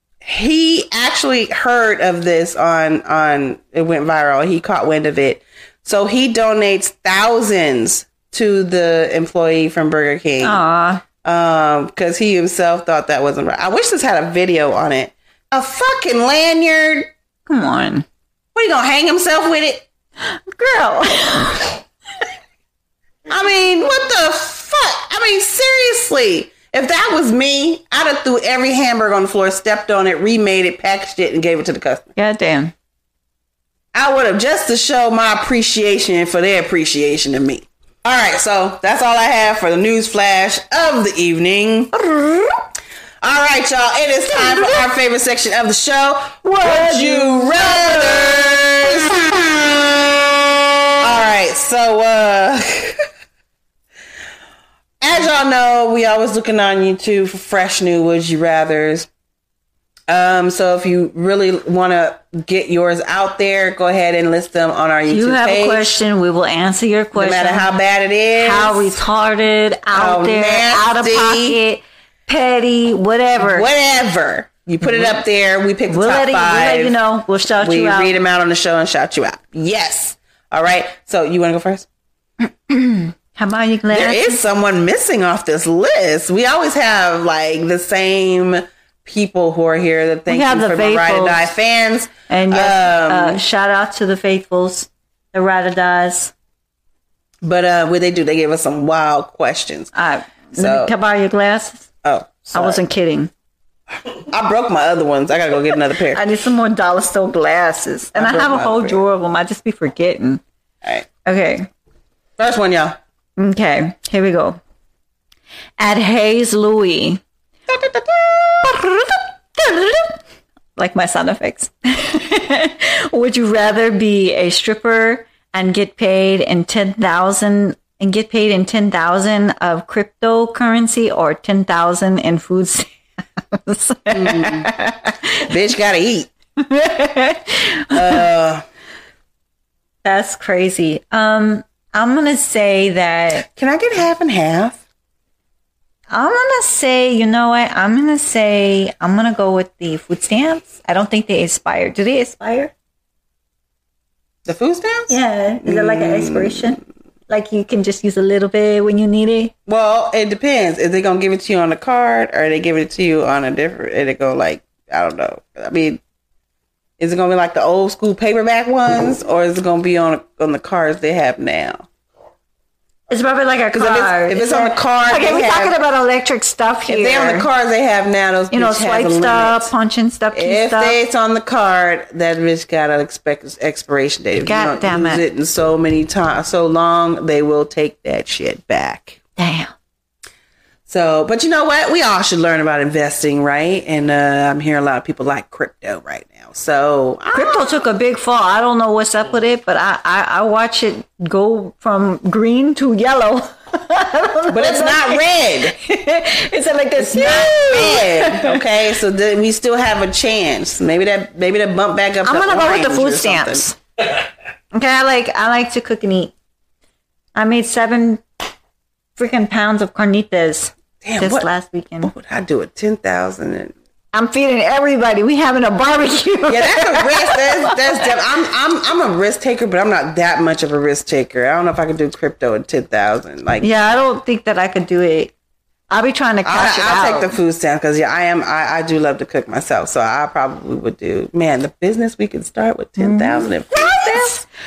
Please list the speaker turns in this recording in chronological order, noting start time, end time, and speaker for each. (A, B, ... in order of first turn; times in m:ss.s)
0:00.2-0:10.6 A
0:10.4-0:11.0 B
0:11.2-0:17.1 A
0:17.5-0:18.0 B
0:18.5-0:19.8 A
0:20.2-0:21.8 B
0:23.3-0:32.1 A
0:32.2-0:32.7 B
0:33.9-0:41.9 A
0:41.9-0:42.6 B
0:43.2-0:50.1 A
0:44.3-0:44.8 B
0:46.4-0:48.4 B
0:51.0-0:53.0 A
0:55.0-0:59.1 A
1:00.1-1:06.0 A
1:05.1-1:07.7 B
1:07.1-1:08.9 A
1:08.4-1:13.7 B
1:09.9-1:11.6 A
1:13.4-1:17.0 A
1:14.8-1:15.2 B
1:15.9-1:18.2 B
1:17.6-1:21.9 A
1:22.7-1:24.4 B
1:23.9-1:33.4 A
1:30.3-1:31.5 B
1:32.3-1:36.3 B
1:37.4-1:39.9 A
1:39.9-1:41.9 B
1:40.5-1:40.9 A
1:42.0-1:42.8 A
1:42.5-1:43.3 B
1:44.2-1:46.2 A
1:46.1-1:50.4 B
1:48.1-1:49.0 A
1:51.2-1:51.7 B
1:52.4-1:53.0 A
1:53.4-1:54.6 B
1:55.8-1:57.2 B
1:57.7-1:58.7 A
1:58.6-2:00.2 B
2:00.8-2:15.4 B
2:14.1-2:14.7 A
2:15.4-2:16.3 A
2:16.6-2:18.2 B
2:17.9-2:18.6 A
2:20.0-2:23.5 B
2:23.4-2:24.8 A
2:26.1-2:32.7 B
2:34.4-2:36.8 A
2:35.1-2:39.5 B
2:39.6-2:46.0 A
2:47.0-2:51.8 A
2:53.1-2:57.5 B
2:53.7-2:55.8 A
2:56.9-2:59.7 A
2:58.5-3:01.0 B
3:00.3-3:09.2 A
3:04.4-3:05.2 B
3:09.4-3:09.7 B
3:10.9-3:17.8 A
3:17.3-3:28.6 B
3:24.5-3:25.8 A
3:27.0-3:33.7 A
3:32.2-3:33.8 B
3:34.7-3:36.3 B
3:37.3-3:38.2 B
3:39.2-3:42.1 B
3:41.0-3:41.5 A
3:42.0-3:43.7 A
3:44.1-3:48.0 B
3:46.5-3:53.7 A
3:53.6-3:55.3 B
3:55.9-3:57.3 B
3:56.4-4:04.4 A
4:03.0-4:04.4 B